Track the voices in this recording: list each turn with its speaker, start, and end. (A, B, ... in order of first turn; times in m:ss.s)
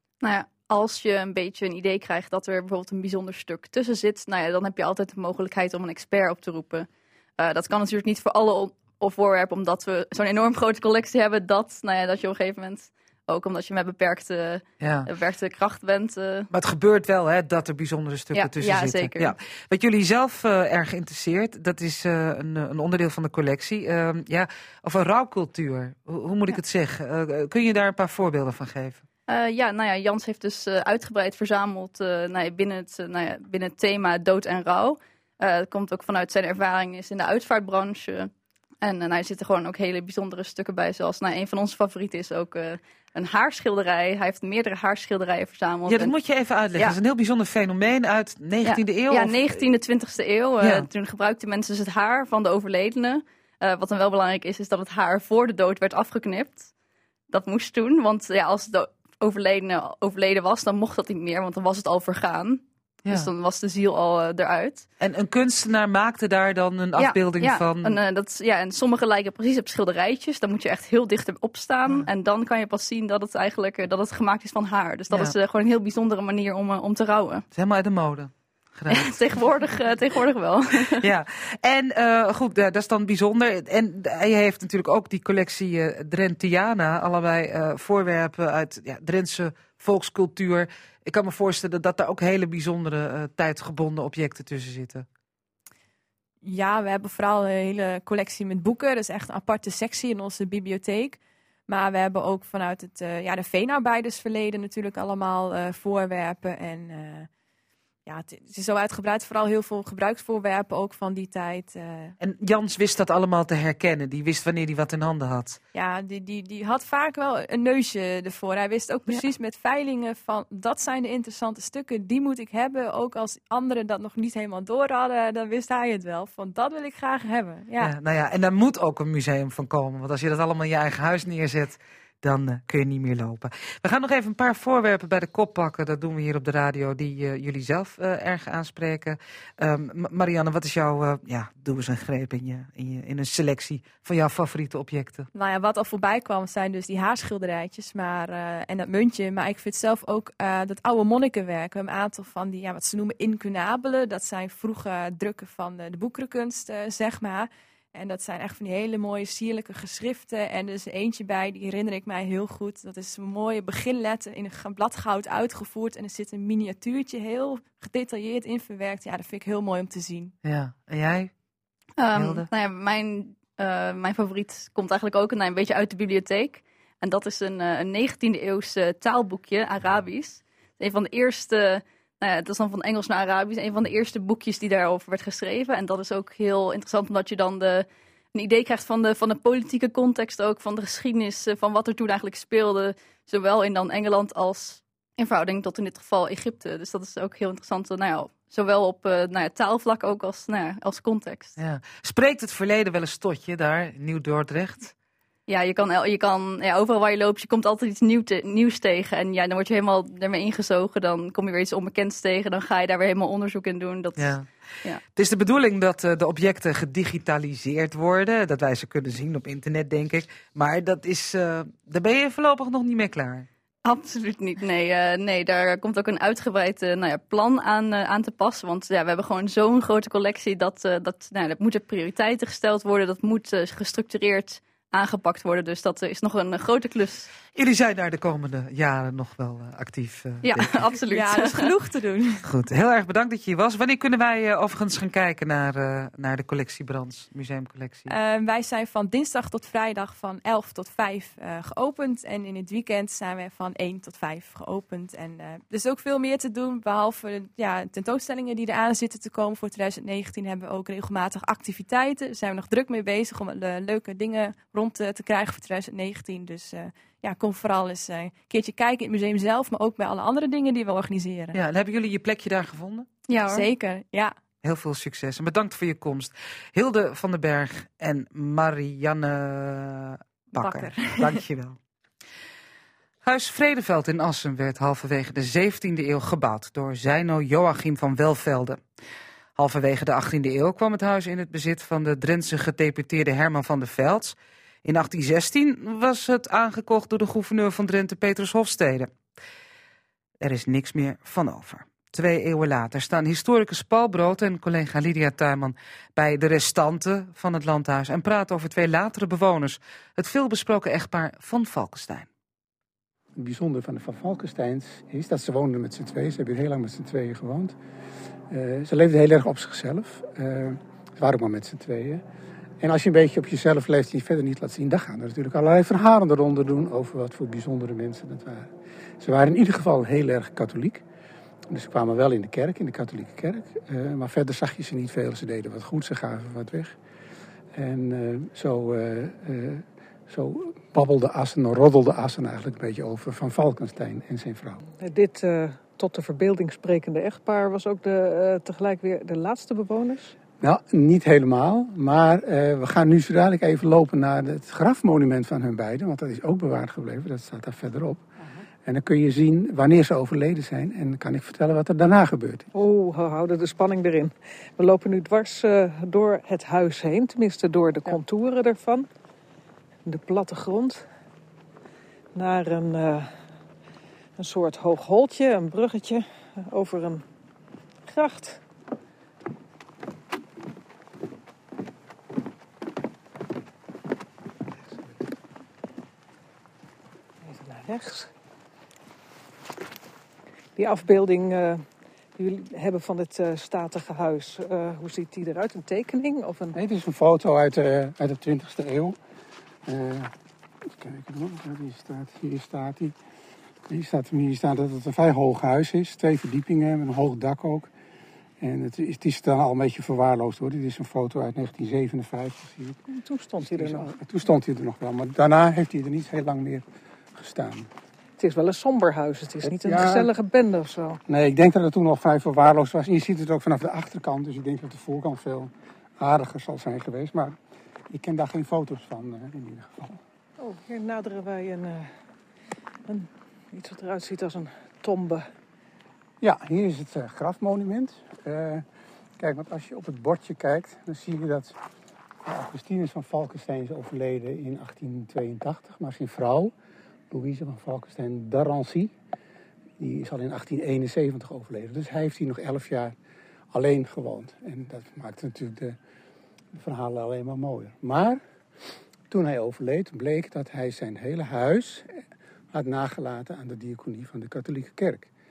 0:00.2-0:06.9 A
0:07.4-0:16.5 A
0:14.8-0:15.1 B
0:16.5-0:29.0 B
0:18.3-0:19.4 A
0:29.3-0:38.3 A
0:38.8-0:46.2 A
0:45.9-0:49.6 B
0:48.6-0:56.7 A
0:50.6-0:50.9 B
0:57.3-1:04.9 A
1:05.0-1:08.0 B
1:07.0-1:17.4 A
1:17.5-1:19.4 B
1:18.9-1:21.1 A
1:21.0-1:35.1 B
1:36.4-1:47.3 C
1:48.1-1:52.1 C
1:52.2-1:55.6 B
1:55.7-2:08.0 C
2:07.8-2:25.3 B
2:25.3-2:50.3 C
2:50.4-2:51.3 B
2:52.0-3:21.6 A
2:52.1-2:52.5 B
3:21.6-3:24.9 B
3:25.5-3:35.0 A
3:34.2-3:34.5 B
3:35.1-3:43.5 B
3:43.8-3:57.3 A
3:57.5-4:00.7 B
4:00.4-4:01.7 A
4:01.1-4:02.4 C
4:02.4-4:08.1 B
4:08.1-4:31.6 C
4:31.5-4:33.1 B
4:33.3-4:33.7 A
4:33.4-4:34.4 C
4:34.6-4:41.8 B
4:40.6-4:41.4 C
4:43.2-4:48.8 B
4:49.6-4:59.1 B
5:00.4-5:12.3 B
5:13.4-5:17.8 D
5:18.5-5:22.2 D
5:22.8-5:31.0 D
5:31.7-5:37.0 D
5:37.7-5:44.8 D
5:45.0-5:50.4 E
5:50.6-5:58.2 D
5:58.8-6:02.7 D
6:02.7-6:09.1 E
6:10.1-6:11.1 E
6:12.3-6:13.3 E
6:14.4-6:17.2 E
6:18.1-6:18.6 E
6:27.4-6:28.3 E
6:30.8-6:31.9 E
6:32.4-6:36.8 E
6:36.7-6:39.2 D
6:39.9-6:40.3 D
6:41.0-6:43.2 D
6:43.9-6:47.9 D
6:48.6-6:53.0 D
6:53.1-6:54.1 E
6:53.6-6:56.8 D
6:57.4-6:57.9 D
6:58.4-7:01.2 E
6:59.6-7:00.3 D
7:01.3-7:07.6 D
7:08.1-7:10.2 D
7:10.6-7:12.1 E
7:13.1-7:15.5 E
7:16.4-7:18.8 D
7:19.4-7:21.8 D
7:22.4-7:26.7 D
7:27.3-7:29.1 D
7:30.0-7:33.1 D
7:33.7-7:36.0 D
7:36.8-7:38.4 D
7:39.3-7:42.1 D
7:42.7-7:45.3 D